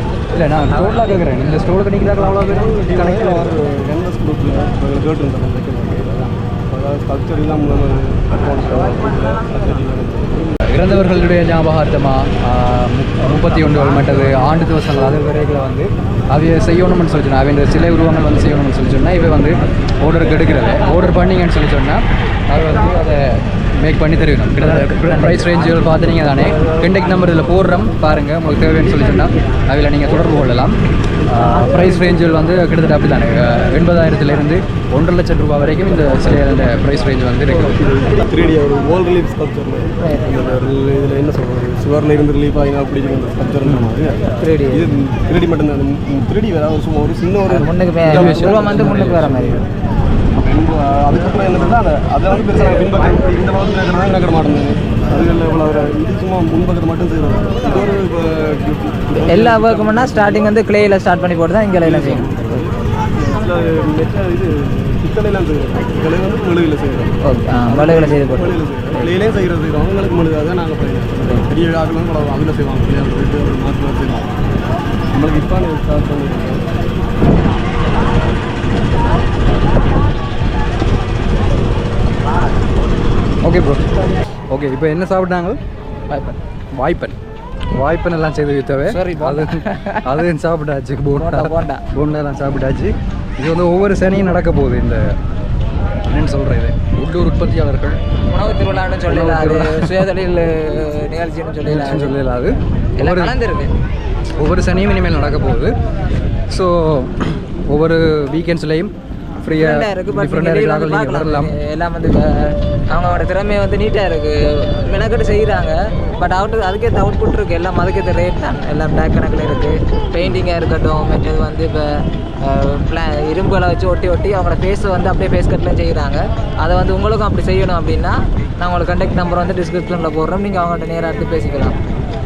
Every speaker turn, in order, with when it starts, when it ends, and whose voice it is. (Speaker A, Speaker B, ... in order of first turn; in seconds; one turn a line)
Speaker A: 0.3-2.8
Speaker B: 2.3-10.5
Speaker A: 10.6-37.8
Speaker B: 37.7-49.6
Speaker C: 40.0-40.4
Speaker A: 43.6-43.9
Speaker C: 44.4-44.9
Speaker C: 47.5-49.6
Speaker A: 48.1-49.3
Speaker B: 50.4-60.5
Speaker C: 59.1-62.7
Speaker B: 61.8-74.3
Speaker C: 67.3-69.1
Speaker B: 75.1-76.7
Speaker A: 83.4-83.9
Speaker A: 84.5-85.6
Speaker A: 86.8-87.2
Speaker A: 87.8-95.1
Speaker C: 88.9-90.3
Speaker C: 91.1-91.8
Speaker A: 96.1-98.0
Speaker C: 98.3-102.2
Speaker A: 98.7-100.0
Speaker A: 101.7-103.3
Speaker C: 103.0-103.8
Speaker A: 104.4-105.8
Speaker A: 106.5-111.5
Speaker C: 109.6-131.8